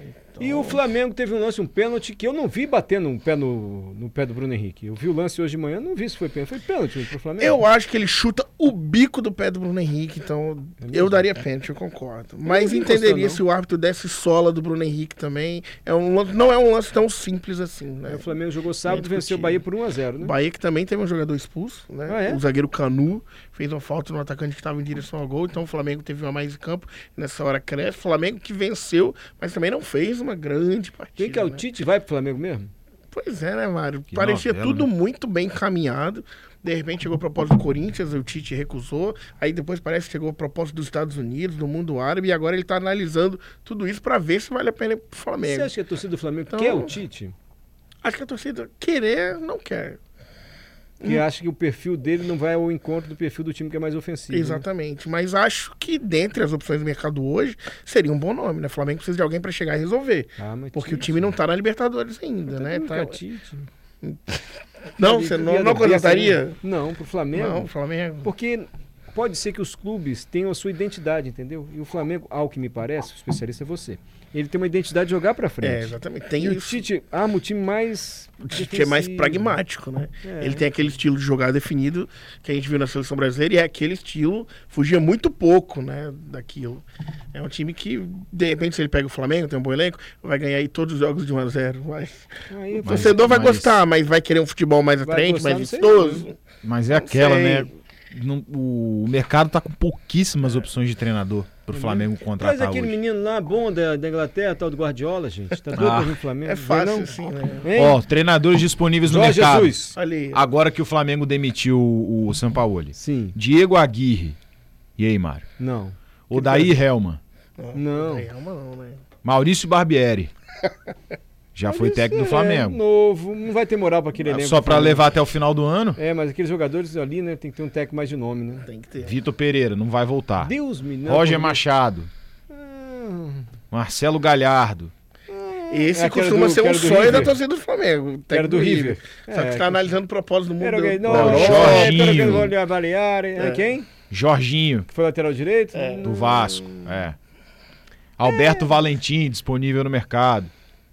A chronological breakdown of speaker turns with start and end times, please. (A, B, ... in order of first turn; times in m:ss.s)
0:00.3-0:00.8 A
0:00.4-0:07.6 B
0:07.4-0:18.3 A
0:10.8-0:11.2 B
0:12.4-0:13.4 B
0:18.0-0:20.3 B
0:18.8-0:19.6 A
0:20.2-0:31.6 A
0:22.1-0:22.4 B
0:31.2-0:32.7 B
0:33.1-0:45.7 A
0:34.1-0:34.9 C
0:45.4-0:47.3 B
0:46.5-0:47.0 A
0:48.0-0:50.0 A
0:51.0-0:51.3 A
0:51.0-0:54.6 B
0:54.3-1:03.2 A
1:00.4-1:01.3 B
1:02.5-1:03.7 B
1:04.0-1:06.6 A
1:05.0-1:07.7 B
1:07.3-1:08.3 A
1:08.2-1:19.6 B
1:15.6-1:16.8 A
1:18.5-1:36.4 A
1:20.2-1:20.7 B
1:32.5-1:33.2 B
1:32.8-1:33.8 C
1:35.0-1:36.2 B
1:36.6-1:43.0 C
1:36.9-1:37.7 A
1:41.7-1:48.0 B
1:45.8-1:46.2 C
1:46.4-1:47.7 A
1:47.7-1:49.8 C
1:49.0-1:49.9 B
1:49.9-1:50.4 A
1:50.3-1:54.4 C
1:52.9-1:53.4 B
1:55.0-1:55.4 C
1:55.6-1:56.5 B
1:56.3-1:57.2 C
1:57.6-1:59.0 A
1:57.7-1:58.3 B
1:59.2-2:00.3 C
2:01.5-2:02.8 C
2:01.7-2:05.1 B
2:04.2-2:06.0 C
2:06.0-2:08.6 B
2:08.6-2:09.1 A
2:09.0-2:10.5 C
2:10.4-2:11.6 B
2:11.1-2:12.1 C
2:12.5-2:13.4 B
2:13.7-2:14.9 C
2:15.3-2:17.4 B
2:15.7-2:22.3 A
2:18.3-2:19.9 B
2:20.6-2:23.9 B
2:21.1-2:22.5 C
2:23.4-2:23.7 A
2:24.1-2:24.9 C
2:24.9-2:26.9 B
2:25.7-2:26.1 A
2:26.0-2:27.2 C
2:28.2-2:30.5 C